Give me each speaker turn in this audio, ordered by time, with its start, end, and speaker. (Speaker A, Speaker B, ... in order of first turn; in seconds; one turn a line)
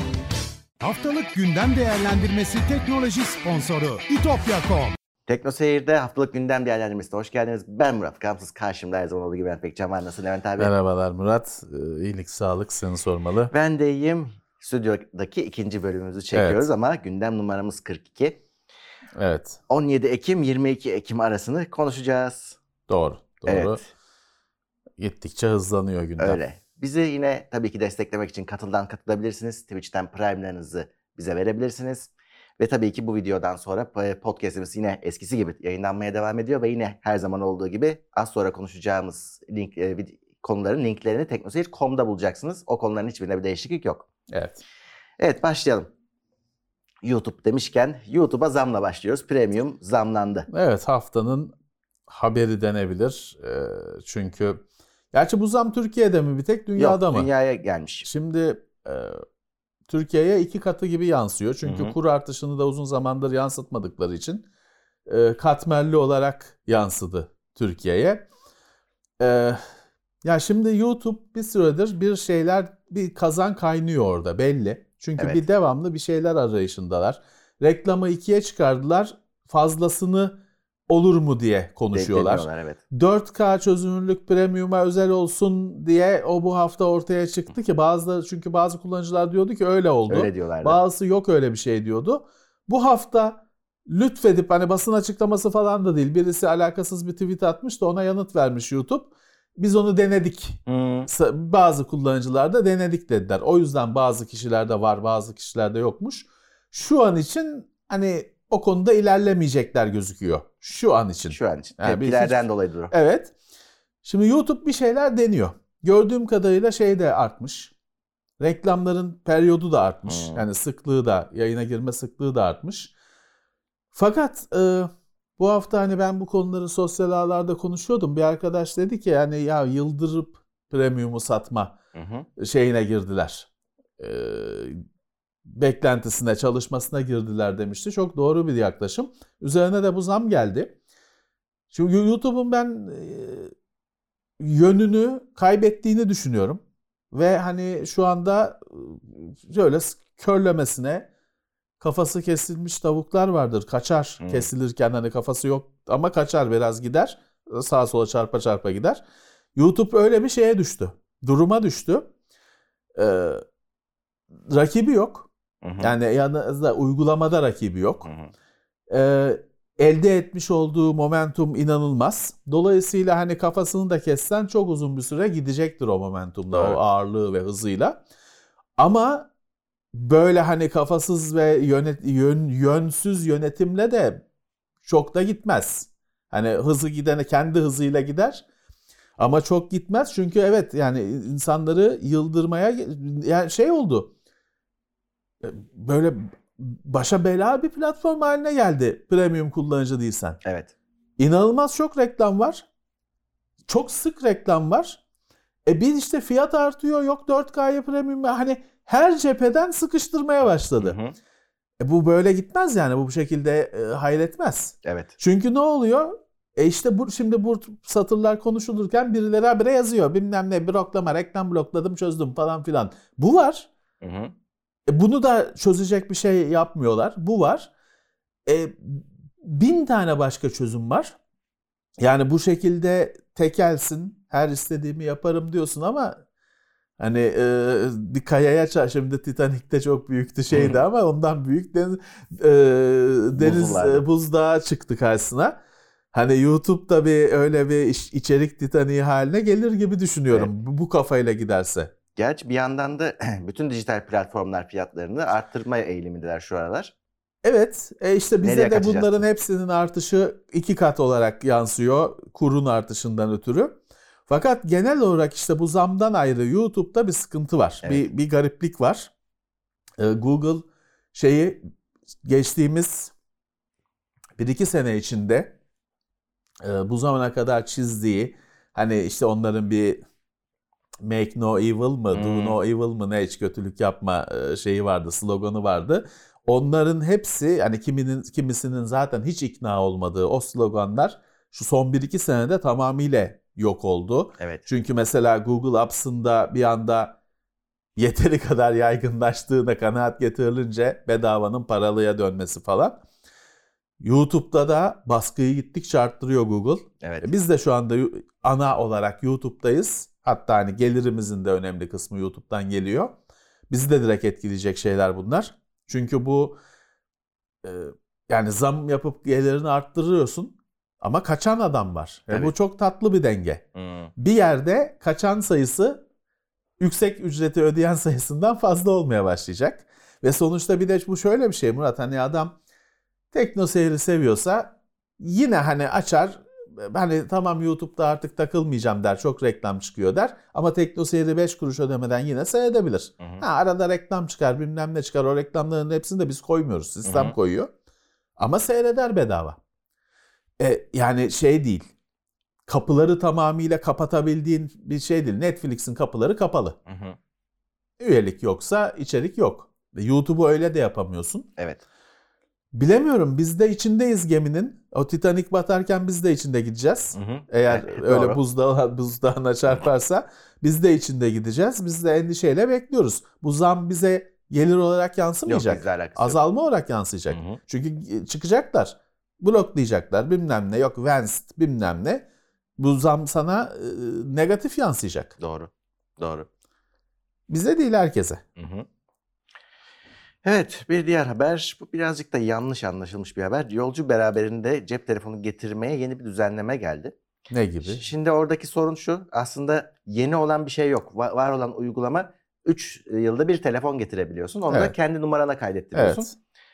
Speaker A: 0.8-5.0
Speaker B: 5.3-10.7
Speaker C: 10.6-13.5
Speaker B: 13.5-18.4
Speaker C: 16.3-16.7
Speaker C: 19.2-19.6
Speaker B: 19.7-22.6
Speaker C: 22.9-23.8
Speaker B: 23.5-23.9
Speaker C: 25.0-26.4
Speaker B: 26.2-44.1
Speaker C: 44.3-44.6
Speaker B: 45.2-45.9
Speaker B: 47.0-50.5
Speaker C: 50.5-51.5
Speaker C: 52.1-57.3
Speaker B: 56.8-58.1
Speaker C: 58.0-59.2
Speaker C: 59.9-64.5
Speaker B: 61.6-61.9
Speaker C: 65.1-68.3
Speaker C: 69.2-69.6
Speaker C: 70.2-80.4
Speaker B: 75.2-75.4
Speaker C: 80.9-113.3
Speaker B: 81.9-82.8
Speaker B: 90.1-90.8
Speaker B: 100.7-101.1
Speaker B: 111.3-112.9
Speaker C: 114.0-117.7
Speaker C: 118.4-122.9
Speaker B: 120.1-120.4
Speaker C: 123.9-131.8
Speaker B: 131.9-132.3
Speaker C: 132.4-133.5
Speaker C: 134.0-134.8
Speaker C: 135.5-140.8
Speaker C: 141.7-143.5
Speaker C: 144.4-151.1
Speaker C: 151.8-159.0
Speaker B: 154.2-154.5
Speaker C: 159.6-162.1
Speaker C: 162.9-163.4
Speaker C: 164.5-165.3
Speaker B: 165.6-165.9
Speaker C: 165.8-168.1
Speaker B: 168.0-168.3
Speaker C: 168.9-178.0
Speaker B: 176.5-176.8
Speaker C: 178.8-179.3
Speaker C: 179.9-184.2
Speaker C: 184.8-188.4
Speaker C: 189.2-194.1
Speaker C: 195.4-200.4
Speaker B: 200.4-200.7
Speaker C: 201.2-202.7
Speaker C: 203.7-205.0
Speaker C: 205.7-211.0
Speaker B: 210.8-211.1
Speaker C: 211.8-223.7
Speaker B: 214.8-215.1
Speaker B: 224.0-224.3
Speaker C: 224.9-227.7
Speaker C: 228.5-231.2
Speaker C: 232.0-236.2
Speaker C: 237.0-245.6
Speaker B: 240.5-240.8
Speaker B: 243.3-244.0
Speaker C: 246.1-251.9
Speaker B: 252.2-256.9
Speaker C: 257.4-269.1
Speaker B: 258.4-259.2
Speaker C: 270.0-271.6
Speaker C: 272.2-273.1
Speaker C: 274.4-275.6
Speaker C: 276.6-280.0
Speaker C: 281.0-297.2
Speaker B: 282.1-282.6
Speaker B: 294.4-294.6
Speaker C: 298.0-303.0
Speaker C: 304.0-313.1
Speaker B: 307.0-307.3
Speaker C: 313.7-316.6
Speaker C: 317.6-323.6
Speaker B: 323.8-324.1
Speaker C: 324.2-326.0
Speaker C: 326.8-332.6
Speaker C: 333.3-347.7
Speaker B: 343.2-343.4
Speaker B: 347.1-347.4
Speaker C: 348.4-349.6
Speaker C: 350.6-351.8
Speaker C: 352.7-356.8
Speaker B: 356.9-357.2
Speaker C: 358.0-361.5
Speaker B: 361.6-361.8
Speaker C: 362.7-382.2
Speaker B: 367.1-368.4
Speaker B: 375.5-376.4
Speaker B: 377.3-377.6
Speaker C: 382.8-385.3
Speaker B: 385.4-386.5
Speaker C: 387.5-388.4
Speaker B: 388.6-388.9
Speaker B: 390.4-397.1
Speaker C: 397.5-398.0
Speaker B: 397.8-406.3
Speaker C: 404.7-404.9
Speaker C: 405.9-406.3